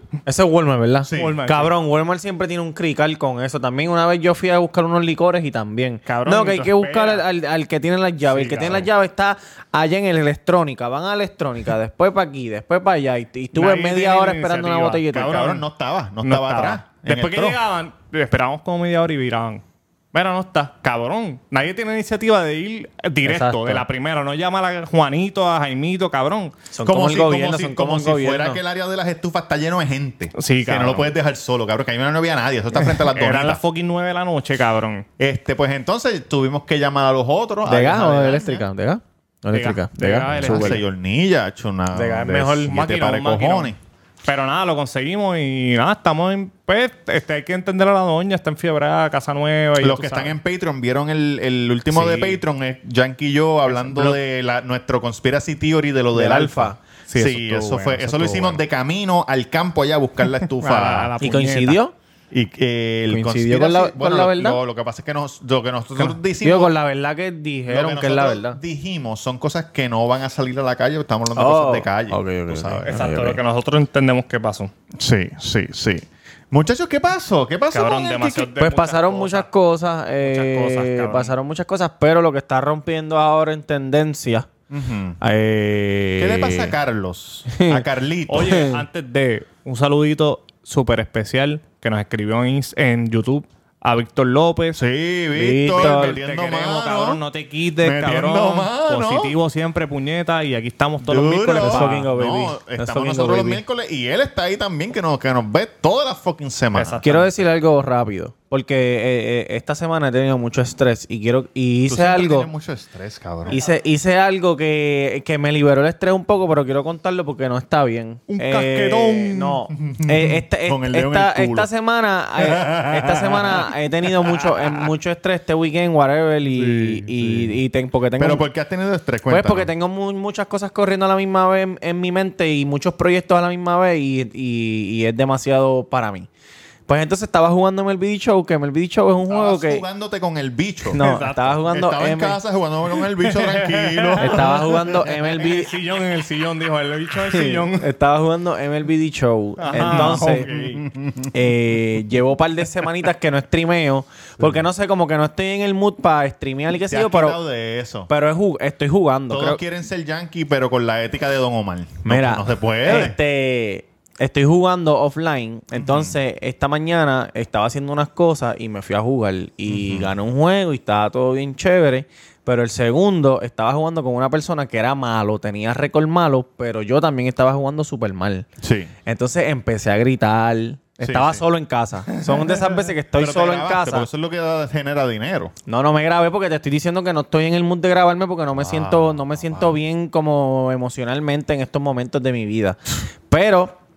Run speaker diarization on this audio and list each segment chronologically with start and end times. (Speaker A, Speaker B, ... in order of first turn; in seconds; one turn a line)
Speaker A: 0.2-15.4
Speaker B: 1.0-1.4
Speaker C: 1.1-1.7
Speaker C: 6.0-7.2
Speaker C: 8.3-8.9
Speaker C: 13.5-15.6
Speaker B: 15.1-17.6
Speaker C: 16.2-26.5
Speaker A: 23.2-23.9
Speaker A: 26.7-28.6
Speaker B: 26.8-33.6
Speaker C: 30.4-31.1
Speaker C: 32.8-35.0
Speaker B: 35.2-38.6
Speaker A: 37.6-40.8
Speaker C: 39.5-40.8
Speaker B: 40.3-43.8
Speaker A: 41.9-42.7
Speaker C: 42.6-50.4
Speaker B: 49.8-61.1
Speaker C: 51.9-52.4
Speaker C: 53.7-54.2
Speaker A: 56.1-56.8
Speaker C: 57.1-58.6
Speaker C: 60.6-61.8
Speaker A: 61.2-61.9
Speaker B: 62.3-66.7
Speaker A: 63.1-64.6
Speaker A: 66.0-68.6
Speaker B: 67.7-72.9
Speaker A: 71.3-73.4
Speaker C: 72.8-74.7
Speaker B: 75.0-78.5
Speaker C: 77.7-79.5
Speaker A: 78.6-84.5
Speaker C: 80.2-81.3
Speaker B: 84.7-85.2
Speaker A: 85.2-86.7
Speaker B: 86.2-88.7
Speaker A: 87.5-87.8
Speaker C: 88.3-94.8
Speaker A: 88.4-88.8
Speaker B: 94.7-97.2
Speaker A: 95.3-96.2
Speaker C: 95.7-102.0
Speaker B: 97.8-99.3
Speaker B: 101.0-107.1
Speaker A: 101.6-103.6
Speaker C: 106.7-107.3
Speaker A: 107.0-112.5
Speaker B: 111.9-113.6
Speaker A: 113.5-128.4
Speaker C: 118.3-119.6
Speaker B: 119.8-121.7
Speaker B: 122.4-123.7
Speaker B: 126.6-127.5
Speaker B: 128.2-129.7
Speaker A: 129.3-136.3
Speaker A: 136.9-139.8
Speaker B: 139.3-141.0
Speaker C: 140.9-141.6
Speaker A: 140.9-142.4
Speaker B: 141.7-145.0
Speaker C: 143.0-147.9
Speaker A: 144.2-145.7
Speaker A: 147.2-150.5
Speaker C: 149.6-150.8
Speaker B: 149.8-151.3
Speaker A: 151.3-157.4
Speaker B: 156.8-158.1
Speaker A: 158.1-159.6
Speaker B: 159.3-163.2
Speaker A: 162.0-178.5
Speaker B: 165.7-166.1
Speaker B: 169.7-170.1
Speaker B: 178.6-178.9
Speaker A: 179.1-184.1
Speaker B: 181.0-181.4
Speaker B: 183.1-185.5
Speaker A: 185.7-193.8
Speaker B: 188.5-189.8